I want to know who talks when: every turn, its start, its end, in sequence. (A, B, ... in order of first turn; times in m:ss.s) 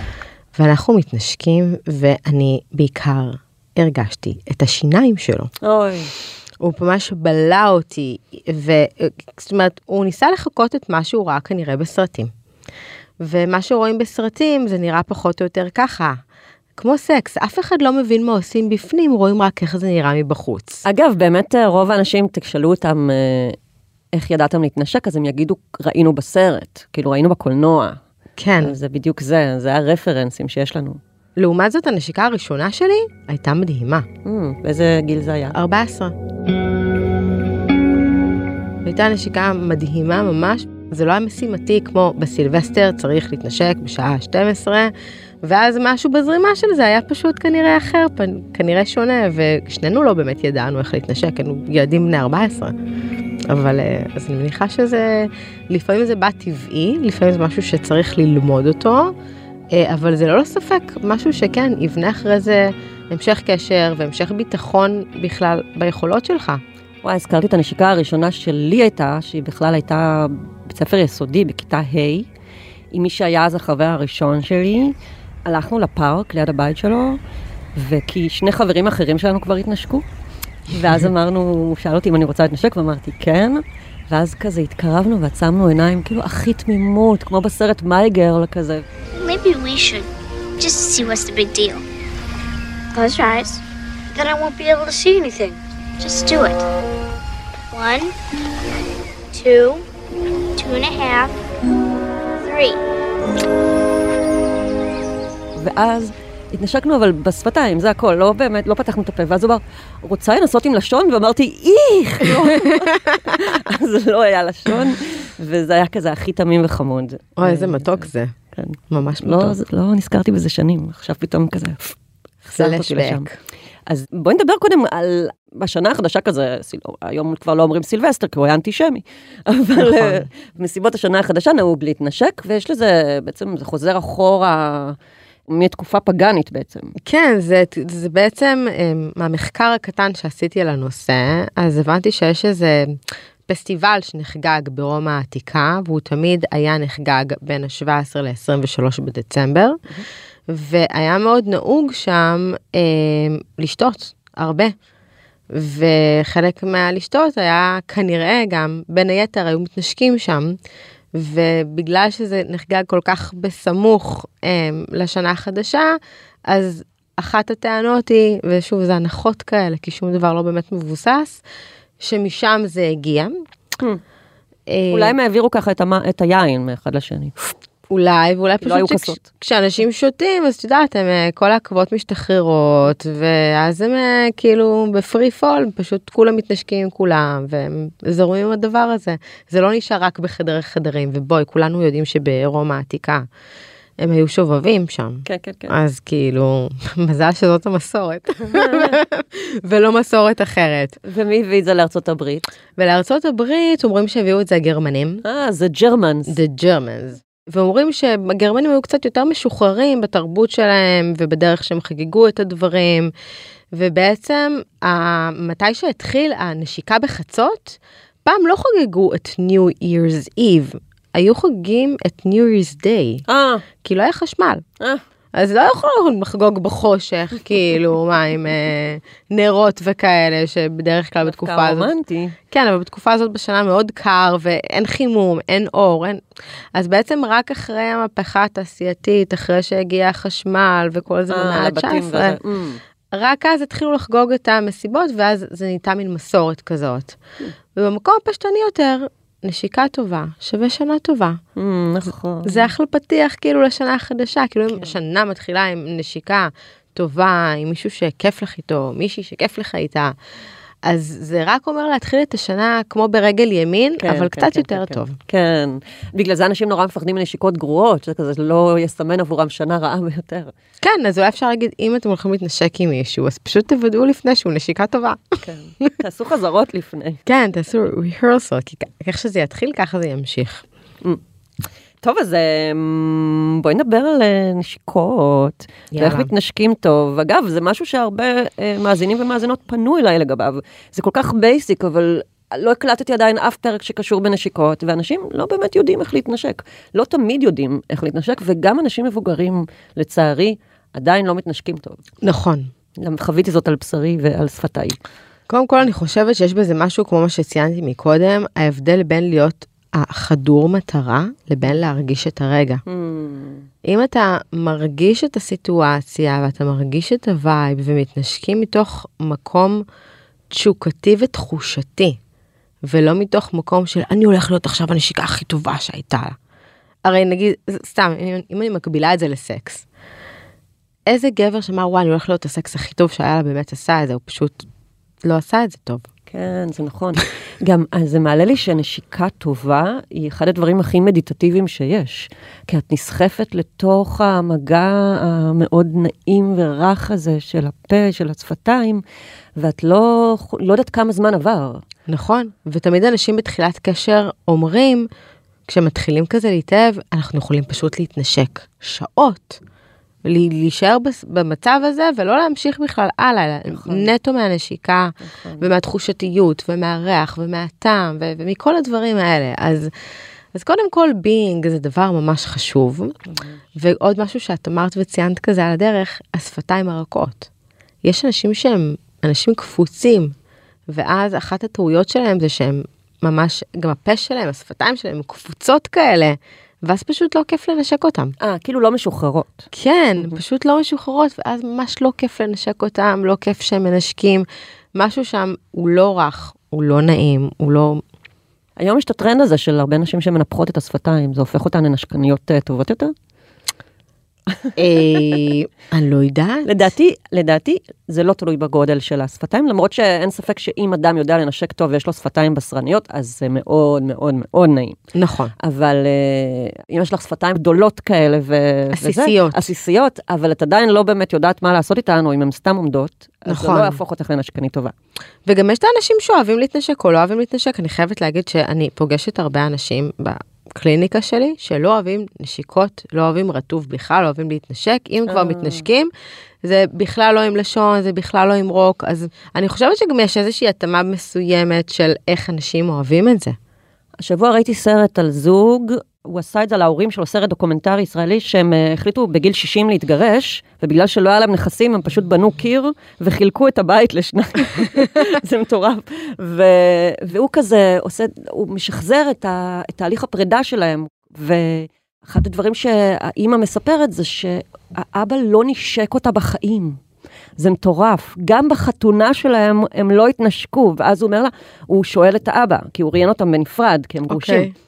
0:00.5-0:05.5 A
0:05.6-0:06.1 B
0:06.6-0:12.3 A
0:13.2-0:16.2 A
0:16.8-0:20.8 A
0:20.8-0:23.6 B
0:24.1-0:28.0 B
0:28.4-0:28.8 A
0:28.6-0:31.0 B
0:31.4-0:34.1 A
0:34.2-0:35.6 B
0:35.5-0:36.2 A
0:38.8-0:52.8 A
0:53.5-0:59.2 A
0:59.7-1:06.6 A
1:07.0-1:12.3 B
1:12.9-1:14.9 B
1:15.5-1:17.2 B
1:17.8-1:20.0 B
1:20.7-1:28.8 B
1:29.2-1:30.1 C
1:30.6-1:31.8 C
1:33.0-1:33.6 C
1:34.1-1:36.7 C
1:37.7-1:38.1 C
1:39.3-1:39.8 C
1:40.6-1:41.4 C
1:42.4-1:42.8 C
1:45.6-2:01.8 B
1:52.3-1:53.4 A
1:57.4-1:58.4 A
1:58.9-1:59.6 A
2:02.4-2:03.4 A
2:02.5-2:03.3 B
2:03.9-2:15.0 B
2:09.8-2:10.3 A
2:15.5-2:16.9 B
2:17.0-2:29.8 A
2:30.5-2:34.8 A
2:35.5-2:40.6 A
2:41.1-2:51.4 A
2:52.0-2:53.4 A
2:54.7-2:55.2 A
2:54.9-2:57.4 B
2:57.9-3:13.3 A
2:58.6-2:59.2 B
3:14.0-3:21.0 A
3:15.3-3:15.7 B
3:18.5-3:19.0 B
3:21.0-3:22.5 B
3:22.8-3:25.2 A
3:25.2-3:26.4 B
3:26.3-3:33.1 A
3:33.7-3:43.2 A
3:43.3-3:43.6 B
3:43.8-3:44.6 A
3:45.4-3:51.9 A
3:51.2-3:52.4 B
3:52.5-3:56.2 A
3:56.8-4:02.4 A
4:01.3-4:02.8 B
4:03.1-4:07.2 A
4:07.7-4:11.4 A
4:11.6-4:12.7 B
4:12.4-4:20.2 A
4:20.8-4:25.2 A
4:24.0-4:30.5 B
4:30.8-4:35.9 A
4:35.4-4:37.2 B
4:37.3-4:40.6 A
4:42.0-5:02.0 B
4:45.9-4:46.3 A
5:02.2-5:02.7 A
5:03.0-5:05.0 B
5:05.5-5:12.8 A
5:12.9-5:13.7 B
5:13.8-5:19.8 A
5:20.5-5:22.2 A
5:22.8-5:26.4 A
5:27.1-5:29.8 A
5:31.1-5:34.7 A
5:35.2-5:36.0 A
5:36.3-5:49.0 B
5:49.6-5:51.8 B
5:52.1-5:55.1 A
5:55.7-5:59.6 A
6:00.2-6:09.9 A
6:03.7-6:04.1 B
6:05.3-6:05.7 B
6:10.5-6:13.2 A
6:13.3-6:13.6 B
6:13.8-6:17.5 A
6:18.0-6:20.3 A
6:20.9-6:28.4 A
6:28.4-6:29.7 B
6:29.7-6:38.0 A
6:38.8-6:43.1 B
6:44.5-6:45.4 B
6:44.8-6:46.8 A
6:46.6-6:55.0 B
6:55.1-6:55.5 A
6:55.6-7:04.9 B
6:58.9-6:59.7 A
7:03.5-7:04.0 A
7:05.5-7:16.1 A
7:15.3-7:15.9 B
7:16.6-7:23.6 A
7:24.2-7:47.0 B
7:47.6-7:54.7 B
7:54.3-7:54.7 A